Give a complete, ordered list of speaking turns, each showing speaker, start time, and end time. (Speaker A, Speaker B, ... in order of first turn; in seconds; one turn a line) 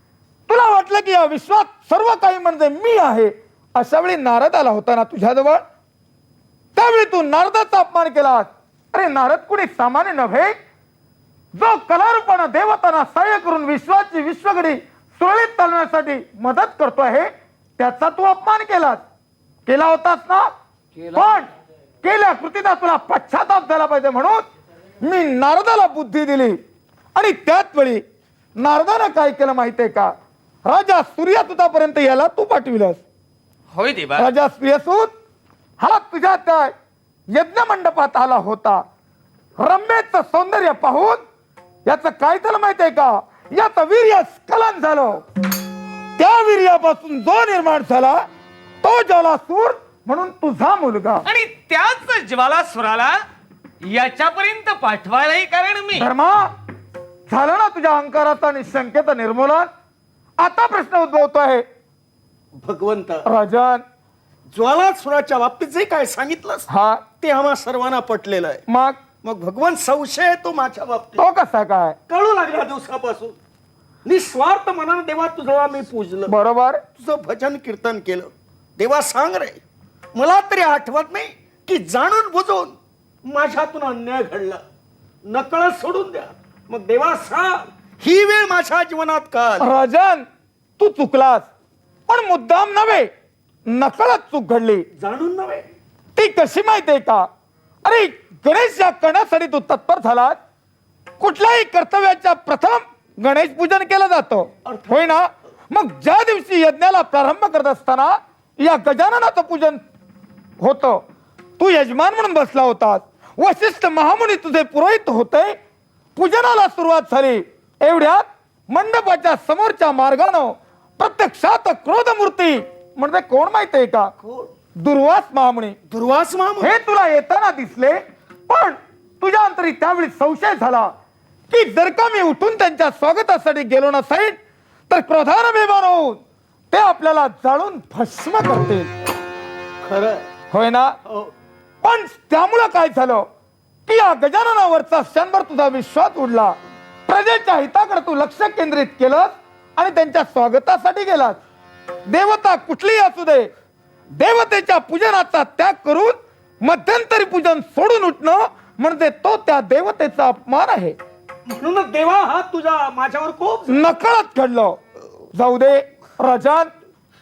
Speaker A: 0.5-5.6
Speaker A: 6.8-10.5
Speaker A: 11.6-19.0
Speaker A: 19.7-20.5
Speaker A: 21.1-21.5
Speaker A: 22.0-24.4
Speaker A: 25.0-26.6
Speaker A: 27.1-28.0
Speaker A: 28.6-30.1
Speaker A: 30.6-33.0
Speaker B: 33.7-34.3
Speaker A: 34.2-35.1
Speaker A: 35.8-36.7
Speaker A: 37.3-38.8
Speaker A: 39.6-41.2
Speaker A: 41.9-45.2
Speaker A: 46.2-48.2
Speaker A: 48.8-51.2
Speaker B: 51.3-53.2
Speaker B: 53.8-56.1
Speaker A: 56.0-56.5
Speaker A: 57.3-59.7
Speaker A: 60.4-61.6
Speaker C: 62.6-63.2
Speaker A: 63.3-63.8
Speaker C: 64.5-66.7
Speaker A: 66.7-67.0
Speaker C: 67.2-68.6
Speaker A: 68.7-69.0
Speaker C: 69.2-71.2
Speaker A: 71.2-72.0
Speaker C: 72.1-73.3
Speaker C: 74.0-76.3
Speaker A: 76.3-76.8
Speaker C: 77.0-79.6
Speaker C: 80.2-84.6
Speaker C: 85.3-89.7
Speaker A: 89.6-90.2
Speaker A: 90.8-91.5
Speaker A: 92.1-93.1
Speaker A: 93.7-94.8
Speaker C: 95.0-95.6
Speaker A: 96.2-97.3
Speaker A: 97.8-100.4
Speaker A: 101.2-109.8
Speaker C: 104.7-105.1
Speaker A: 110.6-111.0
Speaker A: 111.6-115.6
Speaker A: 116.2-124.1
Speaker C: 124.2-124.5
Speaker A: 124.8-125.8
Speaker C: 125.9-126.7
Speaker A: 126.6-130.9
Speaker A: 131.5-134.4
Speaker A: 134.9-136.2
Speaker A: 136.7-138.9
Speaker C: 139.8-140.2
Speaker A: 140.5-140.9
Speaker A: 141.8-143.3
Speaker A: 143.9-146.6
Speaker A: 147.1-151.4
Speaker A: 152.1-153.5
Speaker A: 154.1-161.0
Speaker C: 161.5-163.8
Speaker A: 163.7-164.8
Speaker A: 165.3-166.7